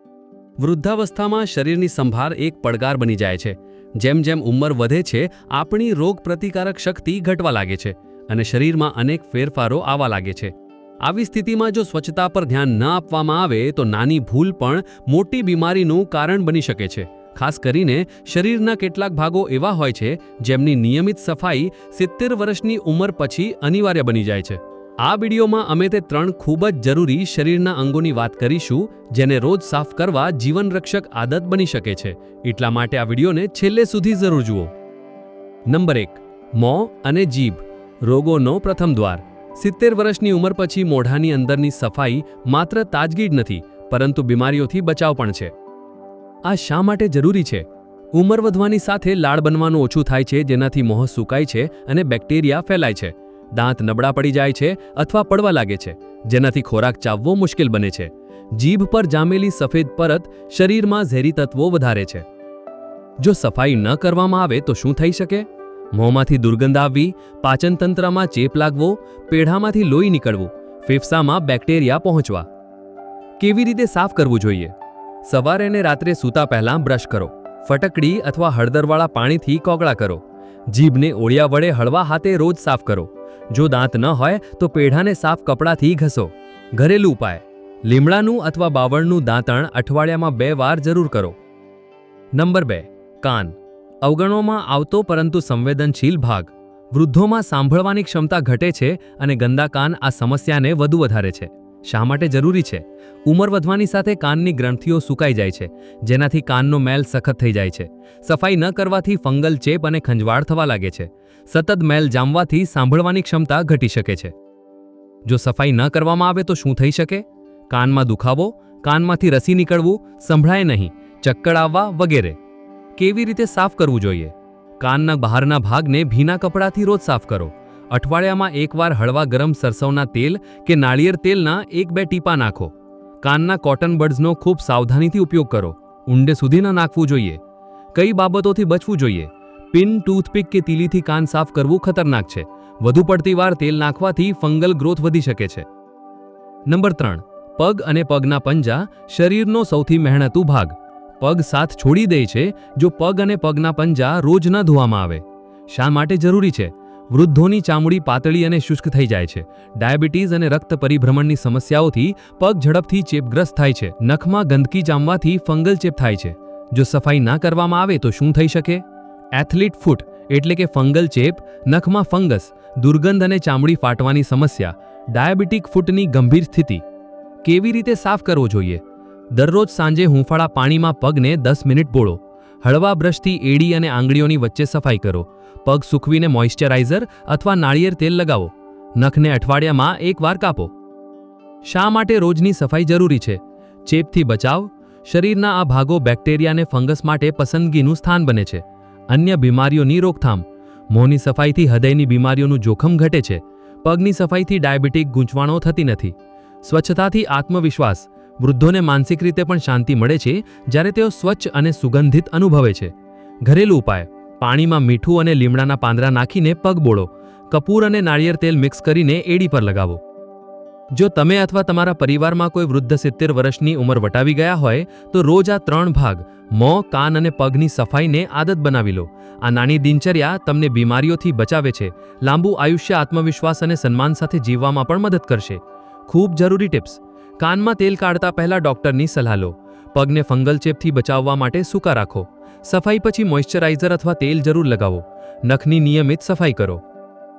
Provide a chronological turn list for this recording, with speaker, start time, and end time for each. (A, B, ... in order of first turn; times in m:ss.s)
0:00.6-0:34.7 A
0:35.7-0:45.5 A
0:46.4-1:02.3 A
1:03.2-1:12.5 A
1:13.4-1:31.4 A
1:32.4-1:54.3 A
1:55.2-2:02.4 A
2:03.0-2:17.4 A
2:17.9-2:25.7 A
2:26.7-2:48.8 A
2:49.4-2:56.8 A
2:57.4-2:58.8 A
2:59.3-3:10.7 A
3:11.6-3:32.9 A
3:33.4-3:40.0 A
3:40.9-4:06.8 A